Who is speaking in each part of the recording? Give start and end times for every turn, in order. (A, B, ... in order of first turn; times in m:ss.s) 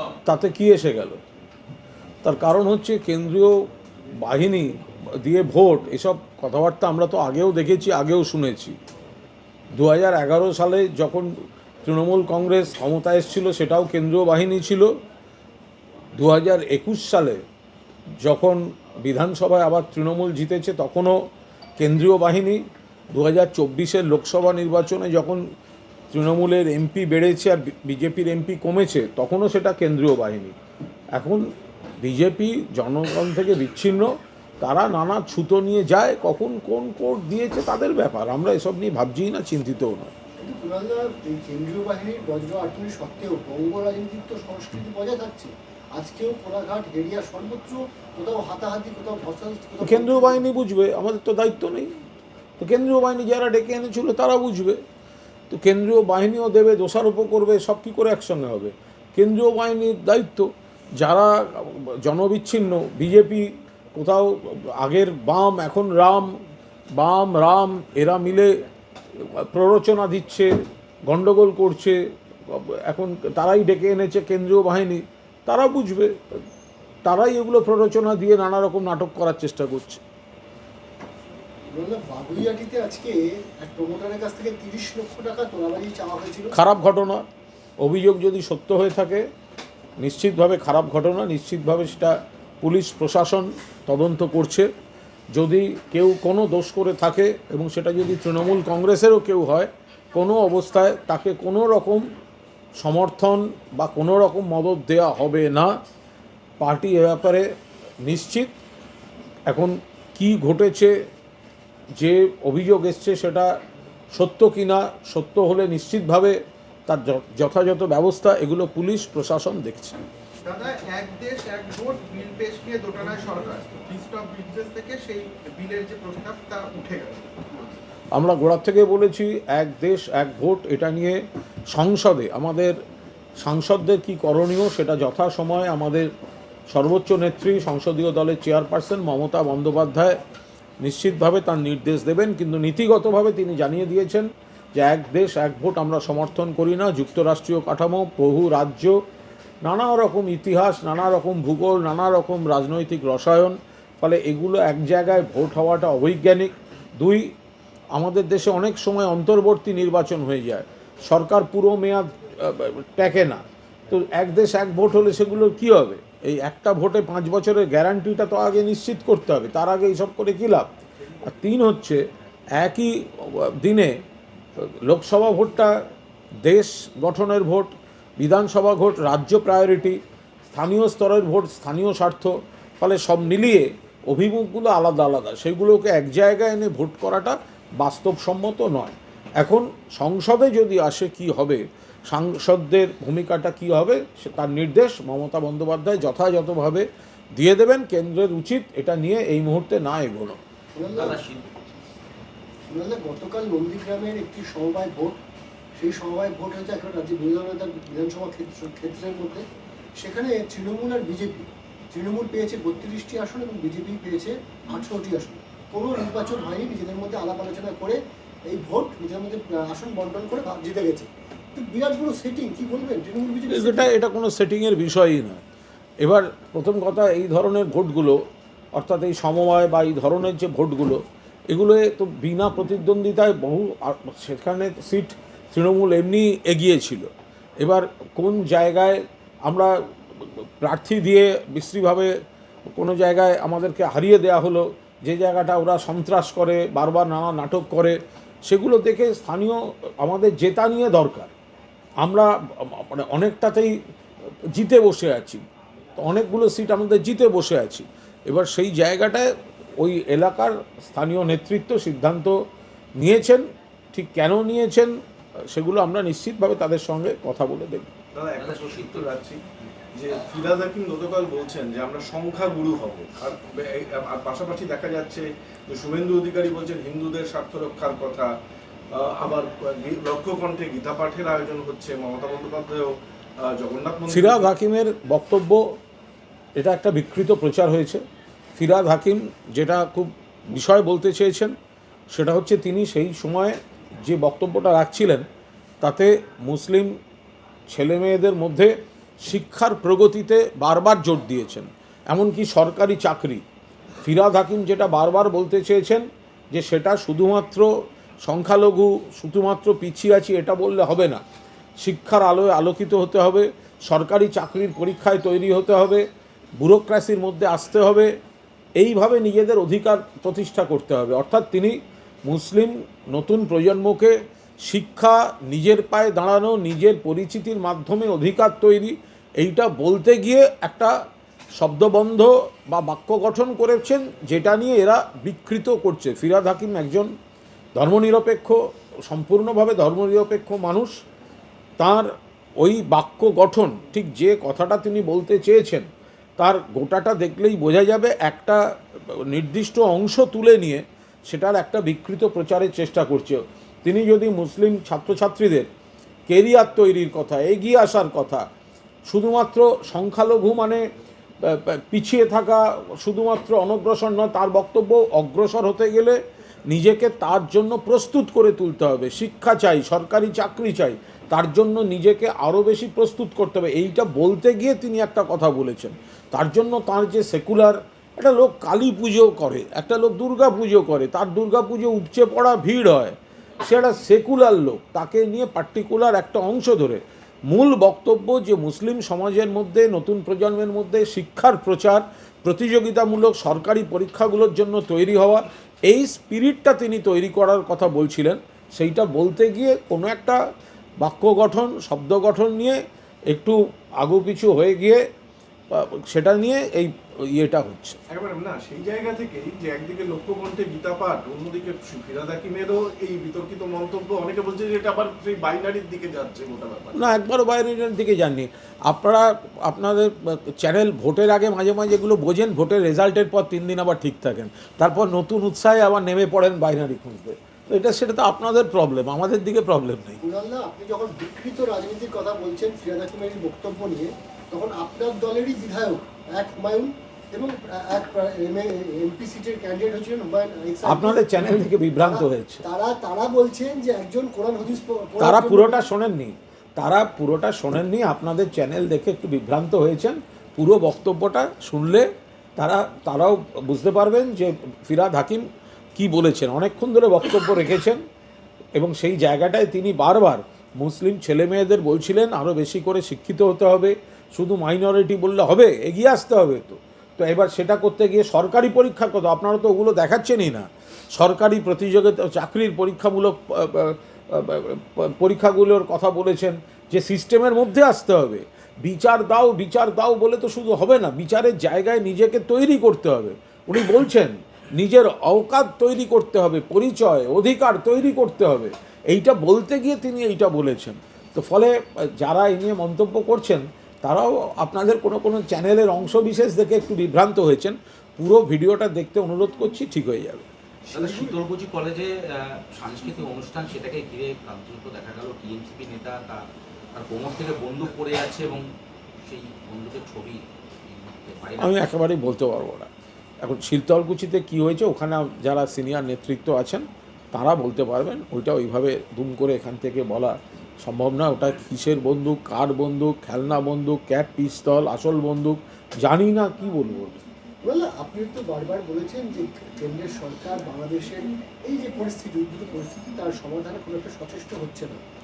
0:00.2-0:01.2 A
0:02.2-0:03.6 A
0:04.2-0:08.8 A
0:09.8-0:11.3 A
0:11.8-0:14.9 A
0:16.2-0:17.4 A
0:18.2-0:21.1 A
0:21.8-0:25.4 A
0:26.1-0:30.6 A
0:31.1-0:31.4 A
0:32.0-0:40.1 A
0:40.4-0:50.4 B
0:49.8-0:51.9 A
0:52.6-0:54.8 A
0:55.5-1:00.5 A
1:01.0-1:06.3 A
1:07.0-1:08.5 A
1:09.2-1:10.5 A
1:11.1-1:16.2 A
1:17.0-1:20.0 A
1:21.7-1:26.6 B
1:26.5-1:27.2 A
1:27.8-1:29.2 A
1:30.0-1:34.7 A
1:35.3-1:42.0 A
1:42.8-1:45.8 A
1:46.6-1:47.5 A
1:48.0-1:48.5 A
1:49.5-1:50.9 A
1:52.0-1:53.5 A
1:54.1-2:00.0 A
2:00.4-2:07.7 C
2:08.1-2:12.8 A
2:13.4-2:16.1 A
2:16.7-2:20.2 A
2:20.8-2:29.0 A
2:29.6-2:37.3 A
2:37.9-2:52.0 A
2:52.6-2:53.9 A
2:54.6-2:55.8 A
2:56.4-3:20.4 A
3:20.8-3:21.2 B
3:20.9-3:21.5 D
3:22.7-3:25.2 B
3:25.8-3:29.4 B
3:30.0-3:43.9 B
3:43.5-3:45.4 A
3:46.0-3:48.2 A
3:48.7-3:57.1 A
3:57.6-4:02.1 A
4:02.7-4:11.3 A
4:12.0-4:13.8 A
4:14.5-4:15.4 A
4:16.0-4:22.4 A
4:23.0-4:24.9 A
4:25.5-4:27.9 A
4:28.1-4:29.4 E
4:28.4-4:29.1 D
4:29.9-4:38.3 E
4:38.9-4:44.5 E
4:44.1-4:45.7 A
4:46.6-4:48.0 A
4:48.6-4:51.5 A
4:52.1-4:55.2 A
4:55.8-4:56.9 A
4:57.7-5:03.4 A
5:04.0-5:07.7 A
5:08.2-5:11.2 A
5:11.8-5:16.0 A
5:16.6-5:18.1 A
5:18.8-5:30.9 A
5:31.6-5:37.1 A
5:37.7-5:41.0 A
5:41.8-5:55.7 A
5:56.3-5:58.5 A
5:59.1-6:00.8 A
6:01.4-6:40.4 A
6:41.0-6:45.0 A
6:45.7-6:48.0 A
6:48.1-6:57.1 E
6:56.9-7:10.2 A
7:10.2-7:25.8 B
7:20.8-7:22.6 A
7:25.2-7:35.4 A
7:36.0-7:38.0 A
7:38.8-8:20.5 A
8:20.8-8:21.4 B
8:20.9-8:28.7 D
8:29.2-8:31.9 D
8:31.6-8:32.9 A
8:33.4-8:47.2 A
8:47.6-8:55.0 B